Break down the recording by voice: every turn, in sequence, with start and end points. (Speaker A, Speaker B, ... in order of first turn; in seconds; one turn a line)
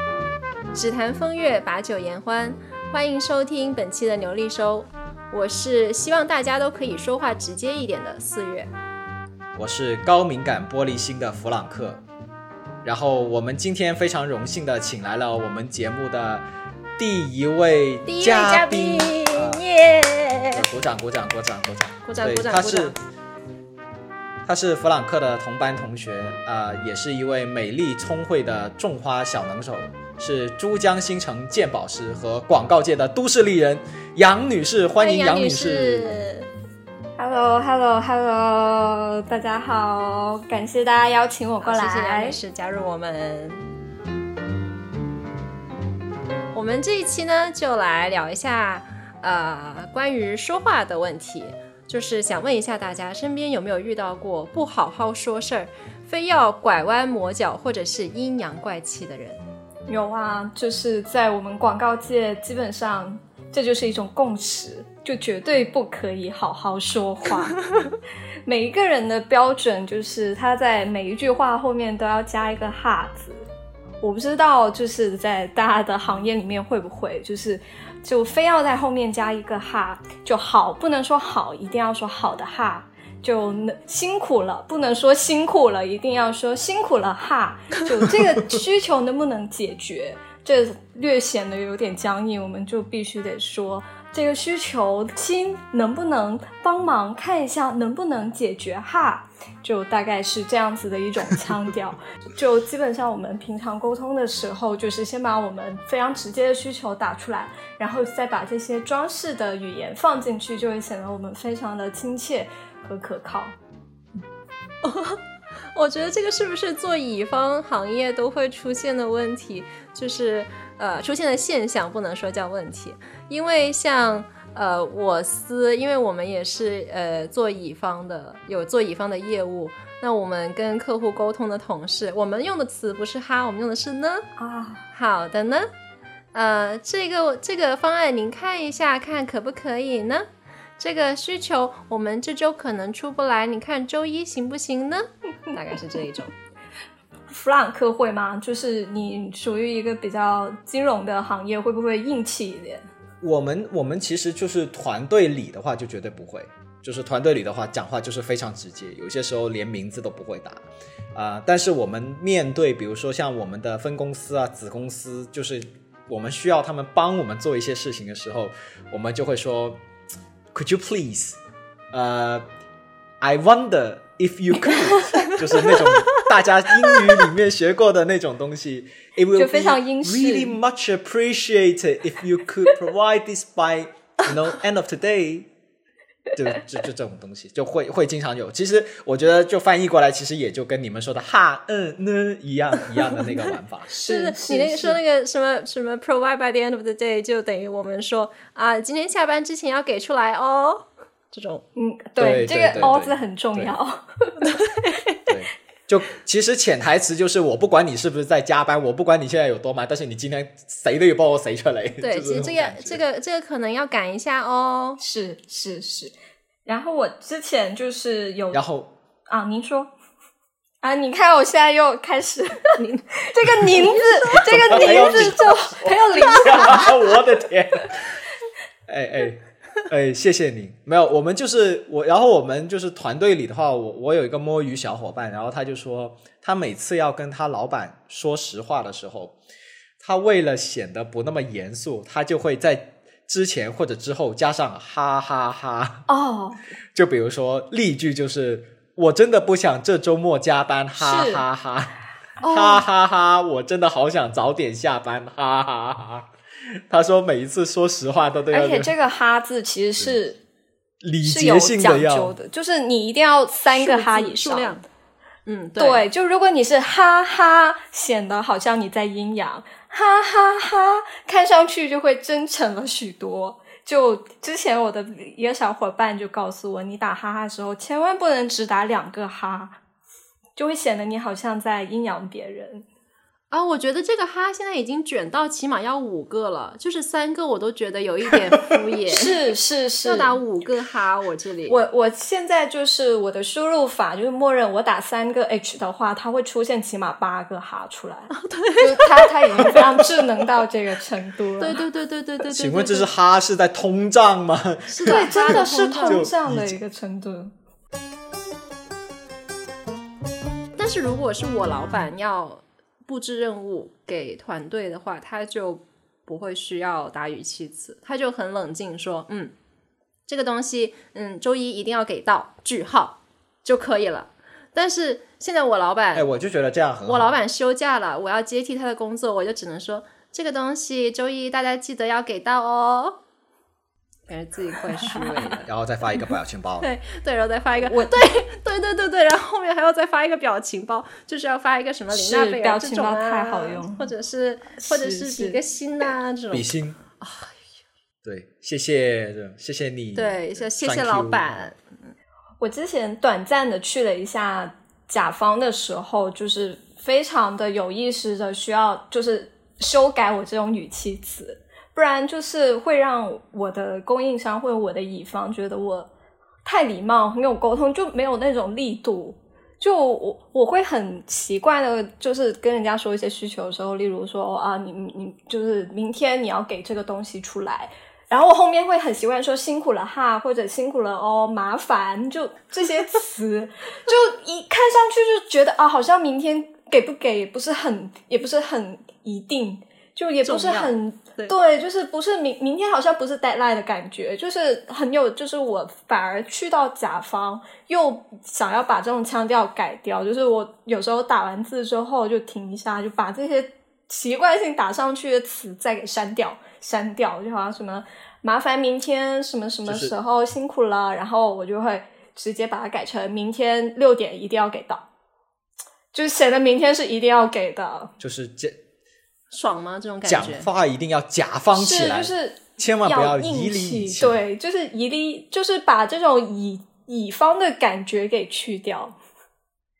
Speaker A: 0.7-8.7
Speaker B: 9.6-12.0
Speaker B: 12.8-16.4
Speaker B: 17.0-19.6
Speaker A: 18.1-20.6
Speaker B: 20.5-22.9
Speaker A: 22.1-22.9
Speaker B: 24.4-36.1
Speaker A: 35.0-36.5
Speaker C: 37.2-42.4
Speaker A: 41.6-43.6
Speaker A: 46.5-59.4
Speaker C: 59.9-67.7
Speaker C: 68.5-73.5
Speaker C: 74.0-113.5
Speaker A: 114.8-115.2
Speaker A: 115.7-134.2
Speaker C: 134.4-134.8
Speaker A: 134.9-135.7
Speaker A: 136.3-140.3
Speaker A: 140.8-146.3
Speaker C: 147.3-152.9
Speaker B: 153.2-160.6
Speaker B: 161.1-169.8
Speaker B: 170.5-171.4
Speaker B: 171.9-172.4
Speaker B: 173.2-185.5
Speaker C: 179.3-180.6
Speaker B: 186.3-193.9
Speaker C: 193.9-195.0
Speaker A: 194.0-201.6
Speaker C: 201.8-204.4
Speaker B: 202.2-203.8
Speaker A: 204.4-205.2
Speaker B: 205.3-213.0
Speaker A: 212.0-215.0
Speaker C: 215.0-216.1
Speaker C: 216.7-218.6
Speaker B: 218.5-218.9
Speaker C: 219.3-219.9
Speaker C: 220.8-227.0
Speaker B: 223.8-228.1
Speaker A: 223.8-225.3
Speaker B: 228.9-239.4
Speaker B: 240.0-246.0
Speaker C: 246.1-246.6
Speaker B: 246.9-256.2
Speaker C: 251.0-251.4
Speaker C: 252.4-252.8
Speaker B: 256.8-258.9
Speaker C: 258.5-260.4
Speaker B: 261.0-262.3
Speaker C: 261.2-264.8
Speaker A: 263.7-264.8
Speaker A: 265.5-266.0
Speaker C: 265.8-279.8
Speaker C: 280.6-282.9
Speaker A: 283.5-289.4
Speaker C: 289.1-290.4
Speaker A: 290.1-291.8
Speaker C: 291.7-301.8
Speaker A: 298.3-299.5
Speaker B: 299.8-300.1
Speaker A: 301.6-303.1
Speaker B: 302.5-306.8
Speaker A: 304.9-306.3
Speaker C: 305.0-307.5
Speaker A: 310.8-319.5
Speaker A: 320.3-326.3
Speaker B: 326.1-327.4
Speaker A: 327.1-333.2
Speaker A: 334.3-335.7
Speaker B: 335.6-336.9
Speaker A: 336.8-347.6
Speaker C: 337.8-338.2
Speaker C: 342.1-344.1
Speaker C: 344.8-345.6
Speaker B: 346.5-347.0
Speaker B: 348.2-351.5
Speaker A: 350.1-352.1
Speaker C: 352.6-366.1
Speaker C: 366.6-415.0
Speaker A: 390.4-391.6
Speaker B: 409.9-410.2
Speaker C: 416.1-418.1
Speaker B: 418.2-418.8
Speaker A: 419.5-420.7
Speaker B: 420.2-424.4
Speaker C: 421.8-429.2